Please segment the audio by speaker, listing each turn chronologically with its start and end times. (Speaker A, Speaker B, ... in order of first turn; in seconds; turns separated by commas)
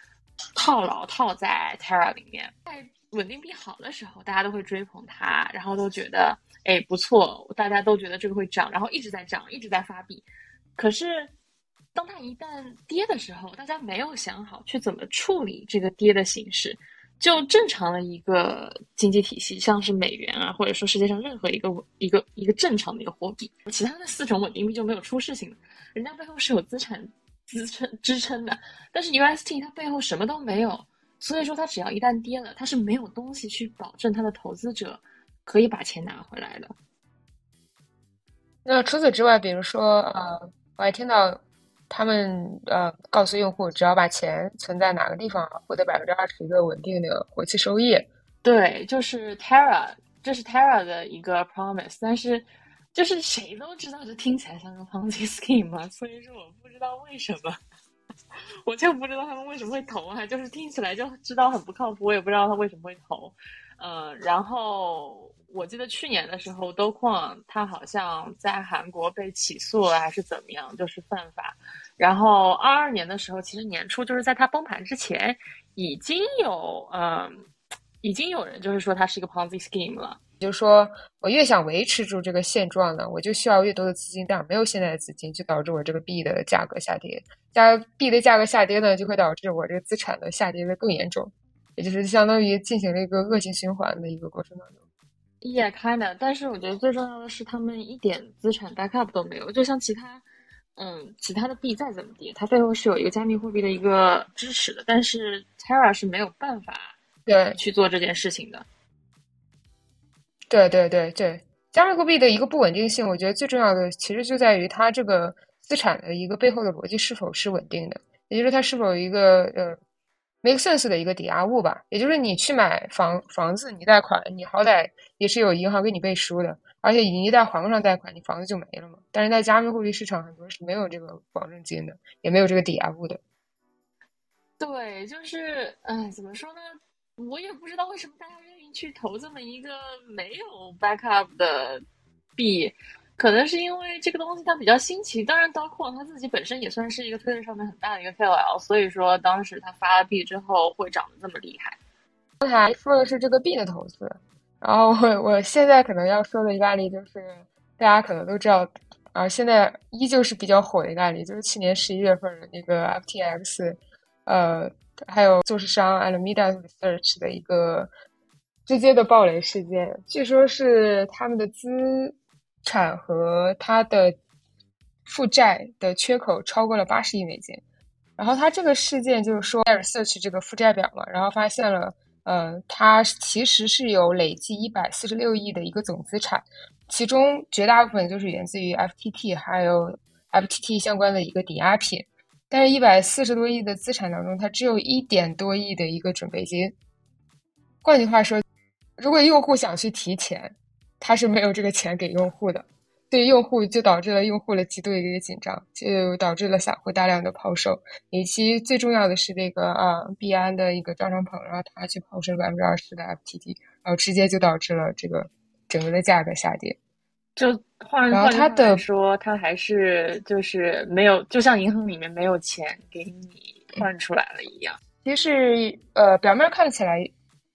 Speaker A: 0.6-10.2, Speaker A: 10.8-11.3, Speaker A: 11.9-36.7, Speaker B: 38.6-48.1, Speaker A: 48.4-57.6, Speaker A: 58.6-77.5, Speaker A: 78.0-80.2, Speaker B: 80.4-94.8, Speaker A: 95.4-100.2, Speaker A: 100.8-107.0, Speaker B: 107.3-107.6, Speaker A: 107.5-108.7, Speaker B: 110.5-119.8, Speaker B: 120.4-133.2, Speaker A: 134.6-141.8, Speaker A: 142.3-151.8, Speaker B: 152.4-167.9, Speaker B: 168.7-174.2, Speaker B: 175.1-177.6, Speaker B: 178.2-196.7, Speaker B: 197.8-198.4, Speaker B: 199.0-216.8, Speaker A: 217.3-224.8, Speaker B: 218.1-218.8, Speaker B: 225.0-227.1